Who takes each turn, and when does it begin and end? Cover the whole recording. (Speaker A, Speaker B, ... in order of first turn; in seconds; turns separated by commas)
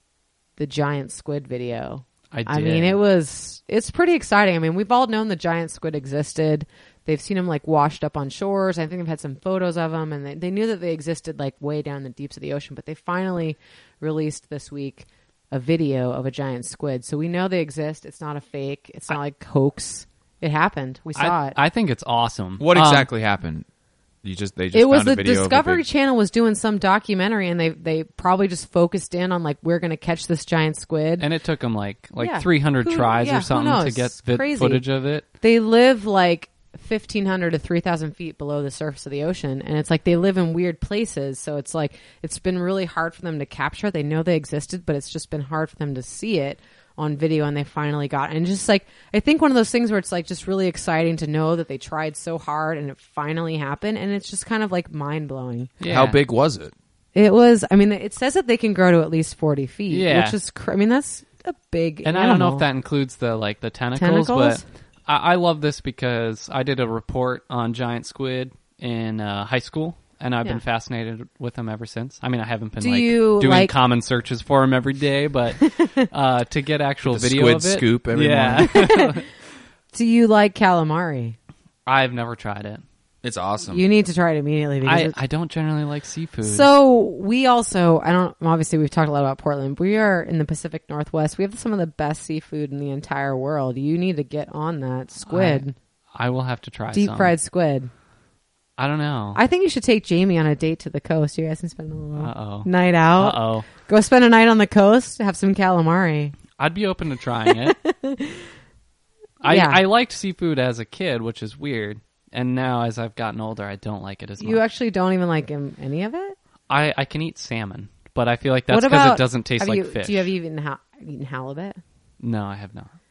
Speaker A: 0.6-21.6, Speaker B: 2.3-3.0, Speaker B: 21.1-23.1, Speaker C: 22.6-23.6, Speaker C: 24.2-25.8, Speaker A: 24.7-31.2, Speaker B: 31.2-35.2, Speaker A: 32.2-34.8, Speaker A: 35.4-55.7, Speaker B: 55.8-56.2, Speaker C: 55.9-56.7, Speaker A: 57.1-62.6, Speaker B: 59.9-60.4, Speaker B: 62.0-79.2, Speaker A: 64.0-64.6, Speaker A: 72.8-73.7, Speaker A: 75.6-76.0, Speaker C: 77.0-78.9, Speaker A: 78.6-79.2, Speaker A: 79.9-81.4, Speaker B: 81.8-82.8, Speaker C: 83.2-83.8, Speaker A: 83.7-85.2, Speaker B: 84.8-86.7, Speaker A: 86.4-95.7, Speaker B: 95.3-97.3, Speaker A: 96.9-97.9, Speaker B: 98.8-99.4, Speaker A: 99.3-106.4, Speaker B: 102.2-103.7, Speaker B: 106.6-107.8, Speaker A: 107.5-108.4, Speaker B: 109.4-114.6, Speaker A: 109.5-109.8, Speaker A: 114.4-116.3, Speaker B: 116.7-120.3, Speaker A: 118.7-121.8, Speaker B: 122.2-122.9